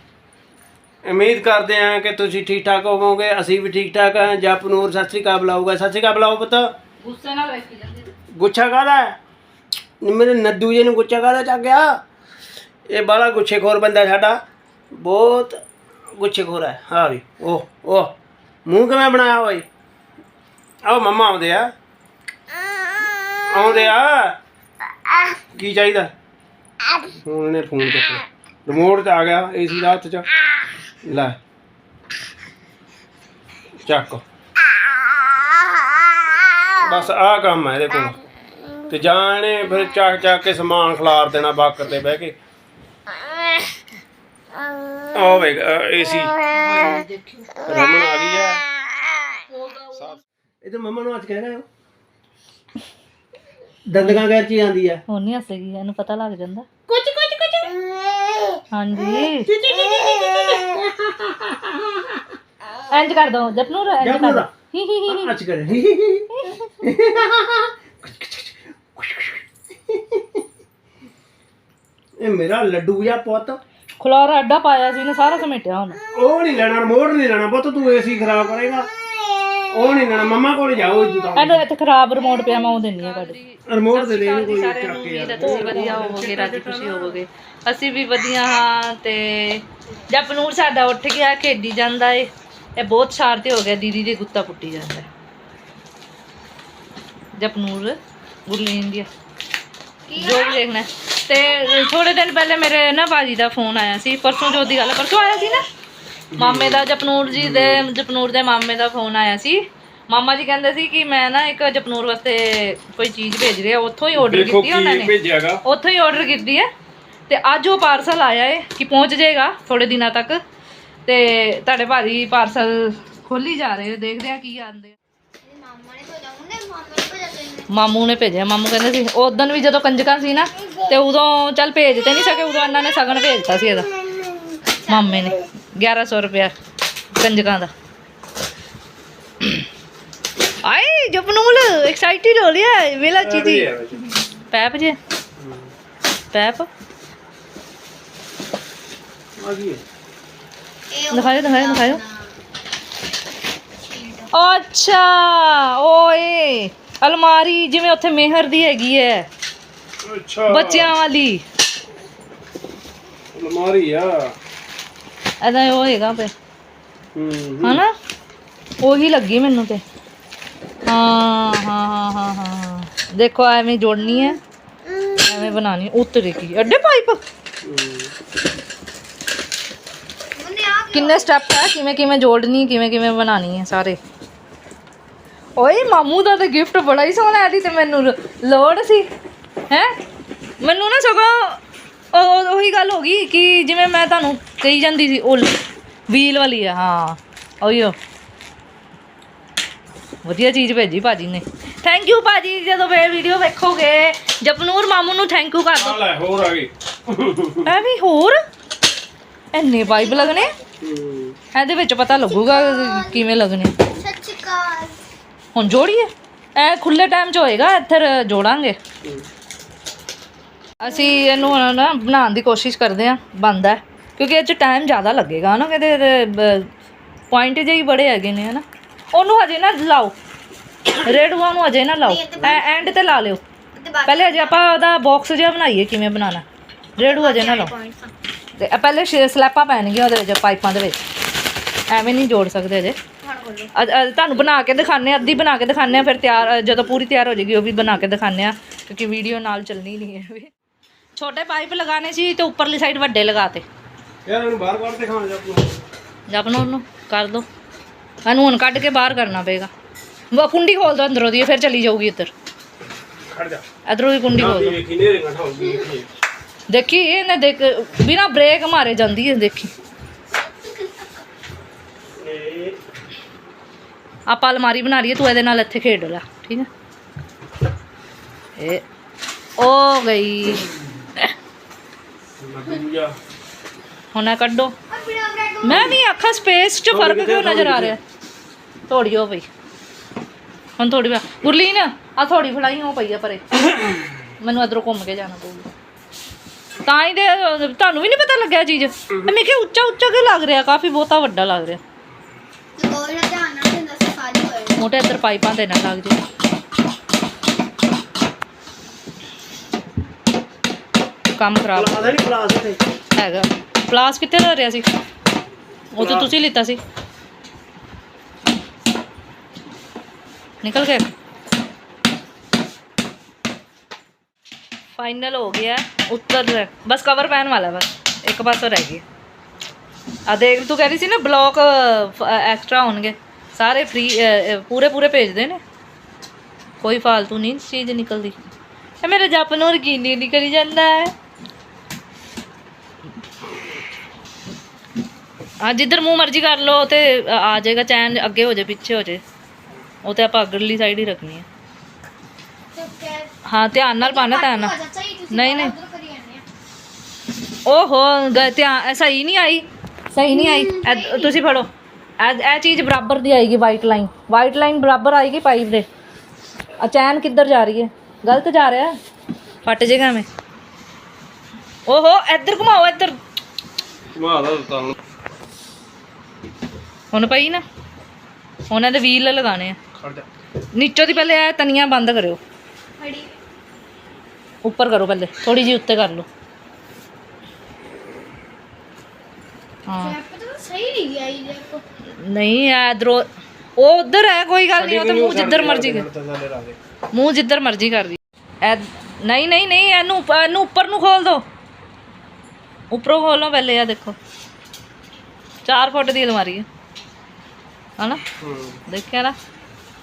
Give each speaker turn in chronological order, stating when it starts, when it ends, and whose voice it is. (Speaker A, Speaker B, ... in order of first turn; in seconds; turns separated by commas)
Speaker A: 1.0-6.7, Speaker B: 7.0-8.1, Speaker A: 8.3-9.2, Speaker A: 10.0-11.9, Speaker A: 12.9-14.4, Speaker A: 14.9-15.6, Speaker A: 16.1-18.1, Speaker A: 18.6-19.6, Speaker A: 20.8-21.7, Speaker A: 23.4-24.4, Speaker A: 25.5-26.1, Speaker A: 27.2-30.3, Speaker A: 31.0-31.4, Speaker A: 33.8-34.2, Speaker A: 36.8-38.2, Speaker A: 38.9-42.4, Speaker A: 45.1-46.3, Speaker B: 46.5-47.6, Speaker A: 47.6-48.6, Speaker B: 49.5-50.2, Speaker A: 50.6-51.6, Speaker A: 53.9-55.0, Speaker B: 55.1-56.7, Speaker A: 56.9-57.8, Speaker B: 58.7-59.5, Speaker A: 59.1-62.2, Speaker B: 62.9-65.3, Speaker A: 64.0-64.5, Speaker A: 65.1-66.3, Speaker A: 66.8-70.4, Speaker A: 72.2-73.6, Speaker B: 74.0-76.0, Speaker A: 76.1-78.9, Speaker A: 79.7-81.6, Speaker B: 81.3-95.1, Speaker A: 83.7-87.2, Speaker B: 97.4-99.1, Speaker C: 100.1-100.7, Speaker B: 100.1-105.6, Speaker A: 106.3-107.9, Speaker B: 106.3-115.1, Speaker A: 114.2-115.6, Speaker B: 115.6-116.7, Speaker B: 117.3-120.4, Speaker B: 121.0-124.9, Speaker C: 125.4-127.7, Speaker B: 127.7-133.9, Speaker C: 134.9-135.3, Speaker B: 134.9-136.5, Speaker B: 137.1-137.7, Speaker B: 140.6-143.7, Speaker A: 143.2-144.1, Speaker B: 144.5-145.0, Speaker A: 145.4-145.7, Speaker B: 146.3-146.7, Speaker A: 149.4-149.8, Speaker C: 150.9-152.3, Speaker B: 151.1-152.0, Speaker C: 153.8-154.3, Speaker B: 154.3-159.2, Speaker A: 160.0-160.9, Speaker B: 160.5-161.4, Speaker A: 163.3-164.3, Speaker B: 165.4-166.3, Speaker A: 167.1-167.8, Speaker B: 167.6-167.9, Speaker B: 168.8-169.8, Speaker B: 170.8-174.4, Speaker B: 175.2-177.2, Speaker A: 177.6-178.1, Speaker C: 180.3-181.3, Speaker B: 180.9-184.0, Speaker B: 185.6-189.1, Speaker B: 190.6-191.6, Speaker B: 192.1-197.9, Speaker B: 200.2-206.0, Speaker A: 205.8-207.7, Speaker B: 207.6-208.4, Speaker B: 209.5-210.5, Speaker C: 209.8-210.5, Speaker A: 210.8-211.4, Speaker B: 211.5-213.8, Speaker C: 212.2-213.2, Speaker C: 213.8-215.0, Speaker B: 215.5-218.8, Speaker B: 220.8-226.7, Speaker B: 227.3-230.1, Speaker B: 231.0-233.4, Speaker C: 232.0-232.9, Speaker C: 233.7-234.6, Speaker B: 234.0-236.4, Speaker B: 237.0-237.7, Speaker C: 237.0-238.1, Speaker B: 238.6-241.0, Speaker B: 241.9-243.0, Speaker C: 243.2-243.7, Speaker B: 243.8-250.5, Speaker B: 251.2-253.6, Speaker A: 254.2-255.8, Speaker B: 256.3-257.4, Speaker B: 258.2-259.7, Speaker B: 260.3-262.3, Speaker A: 263.3-263.6, Speaker B: 263.9-264.8, Speaker A: 264.3-266.1, Speaker B: 266.7-269.7, Speaker A: 272.2-272.8, Speaker B: 274.3-276.7, Speaker B: 278.6-278.8, Speaker B: 279.6-280.7, Speaker A: 282.4-283.1, Speaker B: 284.1-284.7, Speaker C: 284.9-285.9, Speaker B: 285.6-288.0, Speaker A: 285.7-285.9, Speaker A: 286.9-288.0, Speaker B: 288.9-289.4, Speaker B: 290.8-293.4, Speaker B: 294.4-295.7, Speaker B: 296.8-301.8, Speaker C: 302.8-304.9, Speaker B: 304.8-306.2, Speaker B: 311.3-312.2, Speaker A: 311.7-312.8, Speaker B: 313.1-314.9, Speaker B: 315.9-316.8, Speaker A: 316.0-316.3, Speaker B: 320.6-321.1, Speaker B: 325.0-329.0, Speaker B: 330.3-335.6, Speaker B: 336.8-338.4, Speaker B: 339.0-341.1, Speaker B: 345.6-349.2, Speaker B: 350.0-351.4, Speaker C: 352.7-353.3, Speaker B: 353.5-354.8, Speaker C: 354.0-356.4, Speaker B: 355.3-355.7, Speaker B: 357.7-361.7, Speaker C: 360.3-361.3, Speaker B: 362.2-365.9, Speaker B: 366.8-368.9, Speaker B: 369.6-370.3, Speaker B: 371.9-373.2, Speaker A: 374.1-375.0, Speaker B: 377.1-377.6, Speaker B: 378.7-379.8, Speaker A: 379.9-380.2, Speaker B: 380.7-382.4, Speaker C: 383.0-383.3, Speaker B: 384.6-386.3, Speaker B: 389.9-390.2, Speaker C: 390.0-391.8, Speaker B: 392.1-393.2, Speaker B: 393.8-396.0, Speaker A: 394.7-396.8, Speaker B: 397.1-401.4, Speaker B: 402.9-404.1, Speaker B: 405.6-406.6, Speaker A: 408.4-408.8, Speaker B: 408.9-409.3